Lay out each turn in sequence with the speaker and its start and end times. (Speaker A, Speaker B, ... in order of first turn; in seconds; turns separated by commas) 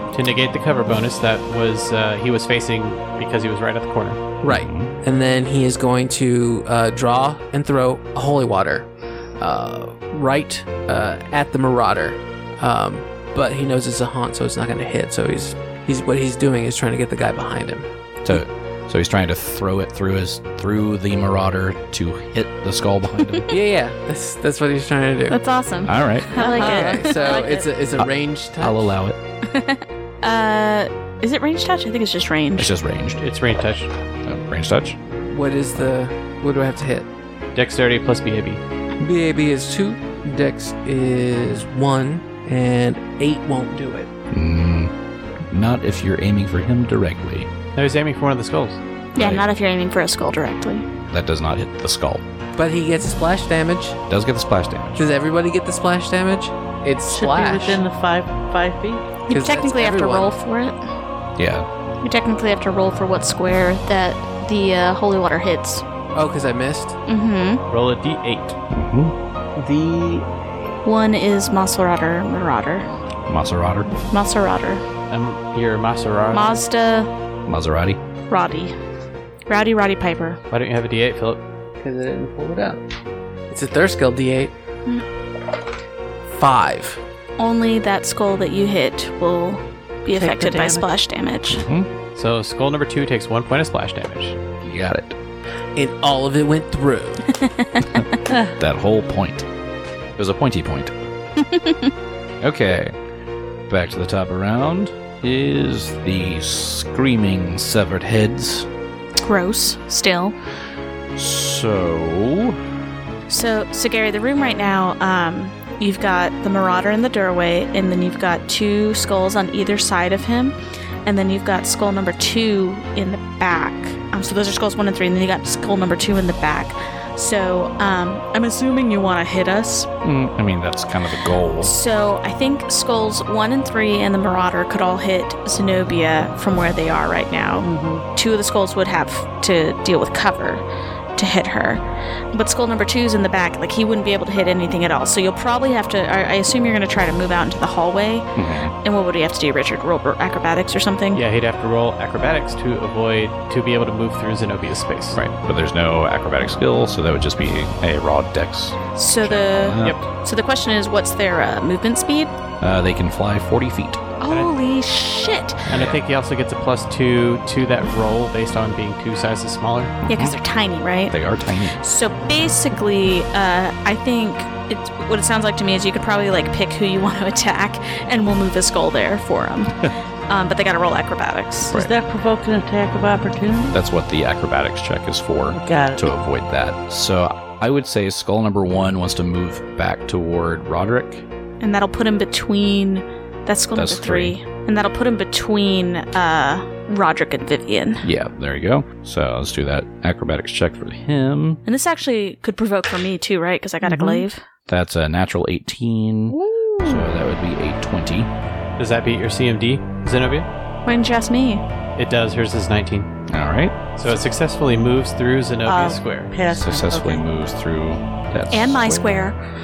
Speaker A: 0.1-4.2, Speaker B: 4.4-17.9, Speaker C: 4.5-4.9, Speaker C: 18.2-23.5, Speaker B: 23.5-25.4, Speaker D: 25.3-27.3, Speaker C: 25.9-26.5, Speaker B: 26.4-28.9, Speaker E: 26.4-27.8, Speaker C: 28.0-29.2, Speaker D: 29.5-32.7, Speaker C: 32.6-33.2, Speaker A: 33.2-33.9, Speaker C: 34.3-35.0, Speaker B: 35.1-37.1, Speaker A: 37.5-38.6, Speaker B: 39.0-44.1, Speaker C: 44.3-44.9, Speaker C: 45.5-47.5, Speaker A: 47.8-48.8, Speaker D: 49.1-50.9, Speaker C: 49.2-49.5, Speaker C: 51.1-52.2, Speaker B: 52.6-54.0, Speaker C: 54.1-55.0, Speaker B: 55.0-57.8, Speaker E: 57.1-59.1, Speaker D: 59.3-60.8, Speaker B: 59.3-60.3, Speaker C: 61.4-61.7, Speaker D: 62.0-65.8, Speaker B: 66.1-67.0, Speaker D: 67.1-67.6, Speaker A: 67.7-68.6, Speaker C: 68.7-69.1, Speaker E: 69.6-70.3, Speaker D: 70.8-72.9, Speaker C: 73.3-73.9, Speaker D: 74.1-74.8, Speaker A: 75.1-76.6, Speaker D: 76.3-77.1, Speaker C: 77.5-78.0, Speaker D: 78.3-78.8, Speaker D: 79.5-80.4, Speaker A: 80.5-81.4, Speaker B: 81.8-82.8, Speaker B: 83.5-84.5, Speaker B: 86.3-87.0, Speaker D: 87.4-91.7, Speaker E: 90.1-90.9, Speaker C: 91.5-91.9, Speaker A: 92.2-94.4, Speaker C: 94.6-95.2, Speaker B: 95.8-97.2, Speaker D: 97.3-98.0, Speaker C: 97.9-99.5, Speaker E: 98.3-98.5, Speaker C: 100.2-101.0, Speaker D: 101.4-101.9, Speaker C: 102.4-103.0, Speaker C: 103.7-108.7, Speaker D: 109.2-110.3, Speaker C: 111.2-112.6, Speaker D: 113.3-129.9, Speaker C: 130.0-131.8, Speaker D: 131.6-140.6, Speaker E: 137.6-138.1, Speaker D: 141.2-148.3, Speaker C: 148.4-148.8, Speaker D: 148.8-151.2, Speaker A: 151.1-155.3, Speaker C: 155.3-160.0, Speaker D: 158.9-162.3, Speaker C: 162.6-164.0, Speaker D: 164.2-165.7, Speaker C: 165.7-166.0, Speaker A: 165.7-170.0, Speaker C: 170.0-170.4, Speaker D: 170.1-171.2, Speaker C: 171.1-171.8, Speaker D: 171.7-181.8, Speaker E: 181.7-183.8, Speaker C: 183.7-191.2, Speaker E: 185.5-186.1, Speaker D: 191.6-198.1, Speaker C: 193.8-194.4, Speaker C: 198.0-201.6, Speaker D: 201.7-204.4, Speaker E: 203.8-204.3, Speaker C: 204.7-208.3, Speaker D: 206.3-207.1, Speaker A: 208.8-210.5, Speaker D: 210.9-211.6, Speaker A: 212.0-213.1, Speaker C: 213.3-213.8, Speaker A: 213.9-216.3, Speaker E: 215.7-217.2, Speaker C: 216.5-219.2, Speaker D: 218.5-219.4